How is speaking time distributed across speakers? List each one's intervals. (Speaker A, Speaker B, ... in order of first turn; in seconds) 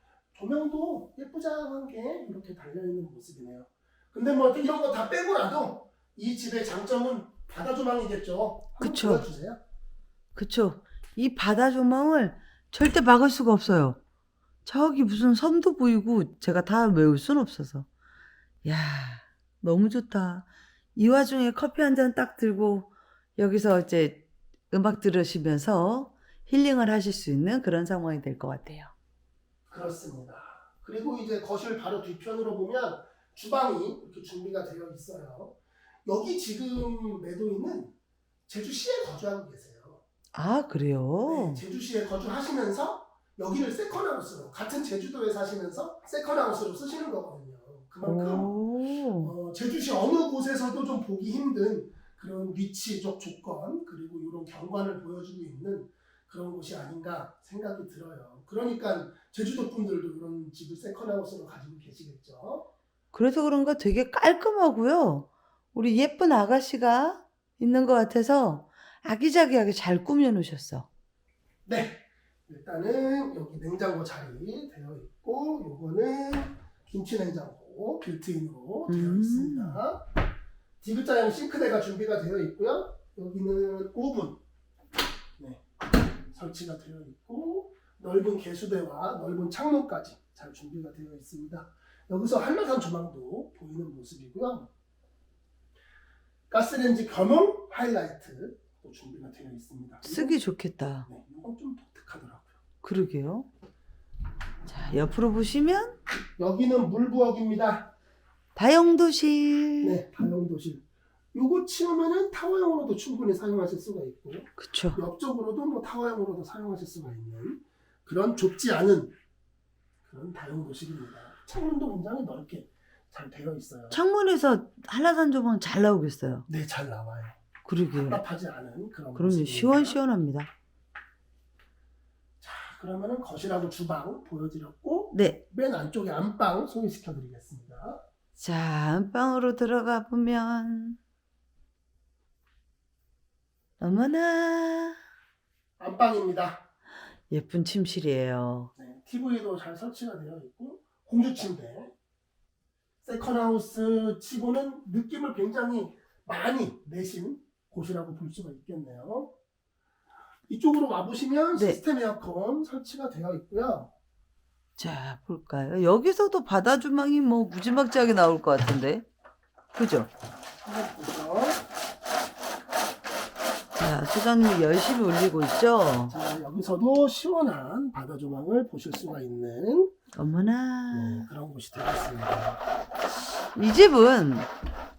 Speaker A: 0.3-9.6, 29.7-37.9, 38.5-40.0, 41.2-48.5, 49.2-62.7, 71.7-80.0, 80.8-84.4, 86.3-94.7, 96.5-100.4, 101.0-102.6, 106.4-107.9, 109.8-110.8, 111.3-119.1, 120.0-124.0, 126.5-127.4, 127.9-130.0, 132.4-138.0, 145.8-146.7, 148.8-151.9, 153.0-159.3, 160.5-163.9, 170.6-171.6, 176.1-179.9, 180.9-182.6
Speaker B: 8.8-9.2, 10.3-14.0, 14.6-17.9, 18.6-28.9, 40.3-41.6, 48.0-49.3, 63.1-70.9, 78.9-79.8, 100.0-101.1, 102.8-103.5, 104.6-106.0, 108.5-110.0, 114.6-115.0, 123.9-126.5, 127.6-128.2, 129.1-130.5, 135.1-135.4, 138.4-141.0, 143.8-145.0, 147.3-148.7, 161.5-161.8, 164.8-169.1, 169.7-170.1, 173.7-176.1, 180.2-181.3, 183.5-184.5